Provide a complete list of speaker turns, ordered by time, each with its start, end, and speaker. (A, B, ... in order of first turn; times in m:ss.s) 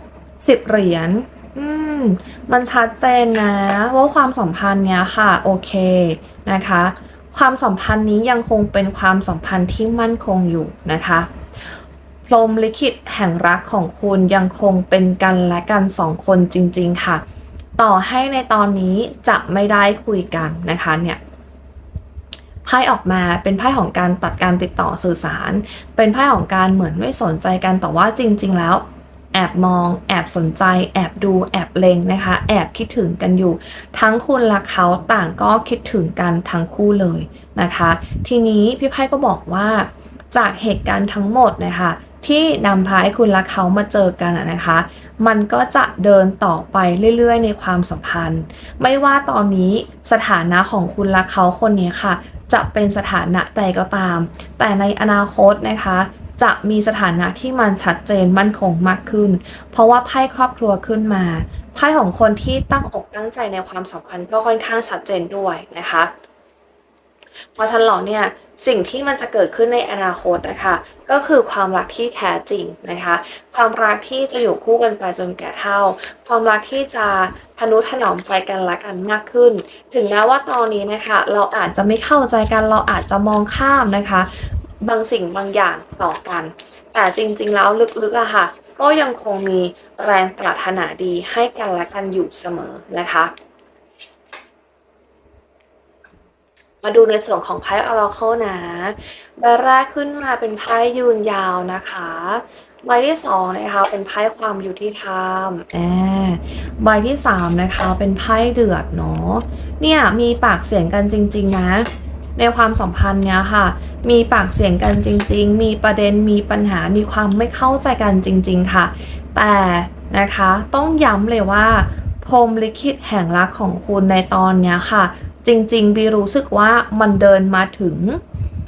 0:00.4-0:11.3 A
0:12.3-0:17.2 A
0:17.8-0:21.2 A
0:22.6-1:06.1 A
1:07.6-1:33.3 A
1:36.8-2:08.2 A